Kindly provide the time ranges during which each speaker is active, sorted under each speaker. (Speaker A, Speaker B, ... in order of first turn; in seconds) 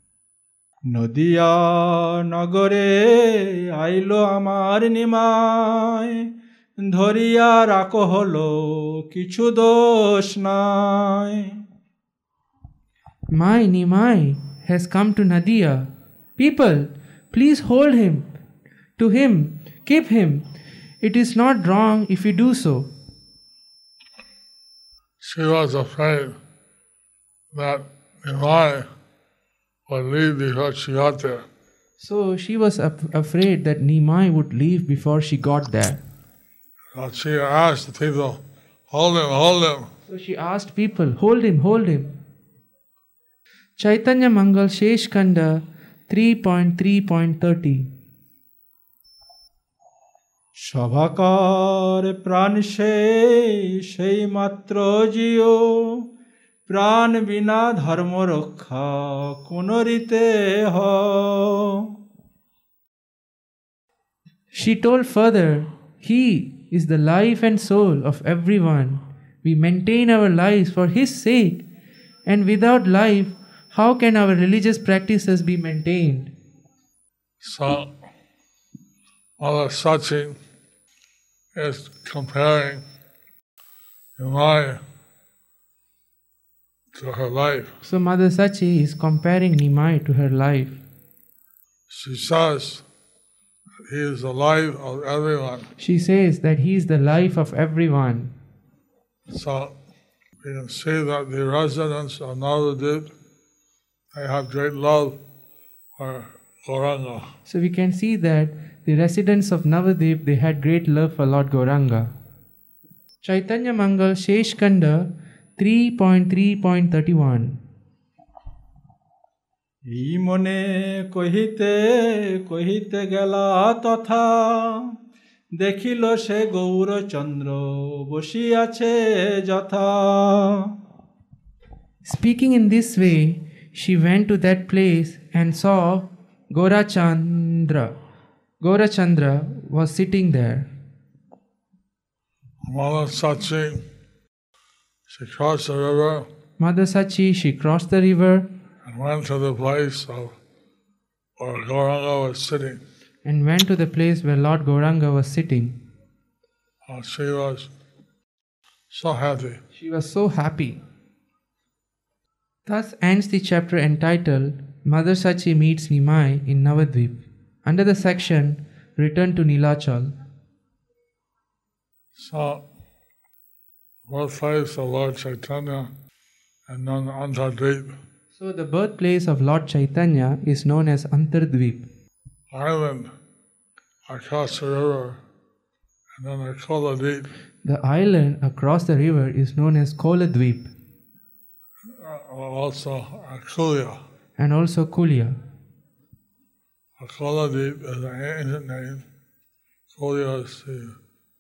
Speaker A: 0.9-6.3, 6.8-11.5, 50.7-56.0, 56.7-61.8, 119.9-124.8, 125.6-130.7
Speaker B: 13.3-18.3, 19.0-20.5, 21.0-22.9, 32.0-36.0, 40.1-42.1, 43.8-47.9, 64.5-71.7, 72.3-76.3, 87.8-90.8, 95.8-98.3, 107.5-112.1, 113.2-117.6, 132.0-137.9, 138.6-140.7, 146.6-148.5, 153.2-155.8, 159.7-160.8, 162.7-170.2, 178.3-181.9, 187.6-190.7, 194.4-195.4
Speaker C: 25.2-26.4, 27.5-28.9, 29.9-31.5, 36.9-39.9, 77.4-78.0, 79.4-80.4, 81.5-82.8, 84.2-84.8, 86.9-87.7, 91.9-92.9, 93.9-95.7, 99.3-99.8, 100.4-103.1, 104.1-105.2, 106.0-107.3, 142.6-143.8, 145.1-146.3, 148.8-150.4, 151.4-152.8, 156.8-157.7, 158.9-159.6, 172.2-172.7, 174.1-175.9, 176.7-178.0, 182.5-183.1, 184.1-185.2, 186.2-187.3, 191.9-194.0, 197.0-199.1, 199.9-201.0